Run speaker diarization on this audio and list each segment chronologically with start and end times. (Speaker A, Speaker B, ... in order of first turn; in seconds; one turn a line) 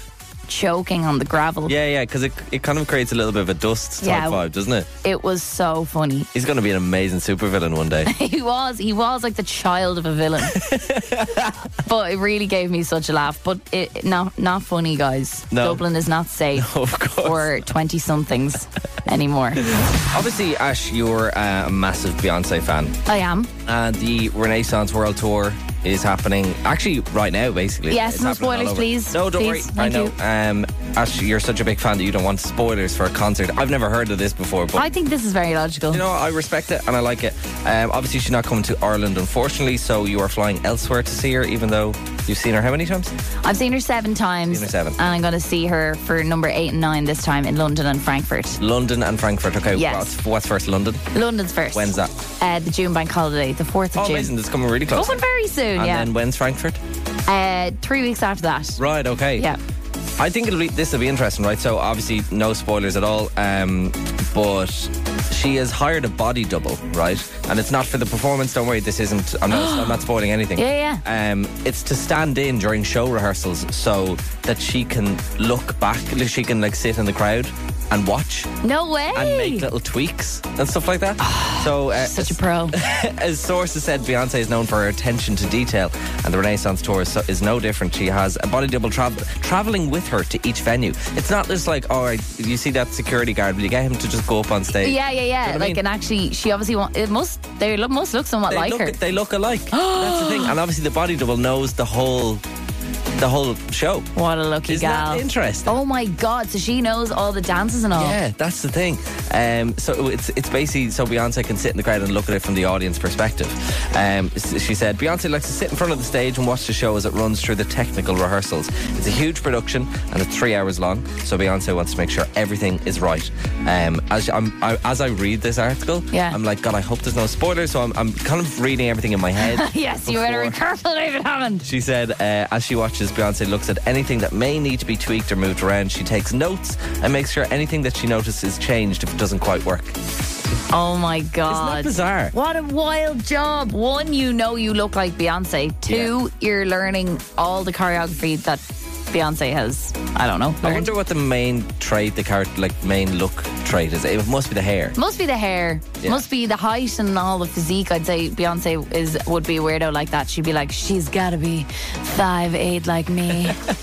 Speaker A: 0.5-1.7
Speaker B: 1.6-4.9
Speaker A: 4.0-4.4
Speaker A: 5.0-6.3
Speaker B: 6.3-8.1
Speaker A: 8.1-10.7
Speaker B: 10.5-11.6
Speaker A: 11.8-19.6
Speaker B: 15.5-15.8
Speaker B: 16.5-17.6
Speaker B: 19.6-22.9
Speaker A: 23.1-23.5
Speaker B: 23.6-34.9
Speaker A: 27.9-30.1
Speaker A: 34.8-36.0
Speaker B: 35.9-43.2
Speaker A: 43.4-48.6
Speaker B: 44.5-45.0
Speaker B: 48.6-51.1
Speaker A: 49.7-50.1
Speaker A: 51.1-54.3
Speaker B: 51.7-52.1
Speaker B: 53.9-55.2
Speaker A: 54.9-56.1
Speaker B: 55.7-56.8
Speaker A: 57.3-58.8
Speaker B: 58.8-59.5
Speaker B: 60.2-78.5
Speaker A: 69.5-70.0
Speaker A: 70.5-71.0
Speaker A: 78.6-79.7
Speaker B: 79.1-95.8
Speaker A: 81.2-82.8
Speaker A: 94.7-99.0
Speaker B: 98.5-102.4
Speaker A: 99.7-100.6
Speaker B: 103.2-104.1
Speaker A: 104.1-108.2
Speaker B: 104.7-105.8
Speaker B: 107.9-130.6
Speaker A: 126.1-126.4
Speaker A: 129.4-131.7
Speaker B: 131.6-140.0
Speaker A: 140.7-150.9
Speaker B: 141.5-142.3
Speaker B: 145.9-146.1
Speaker B: 150.6-155.0
Speaker A: 154.9-163.6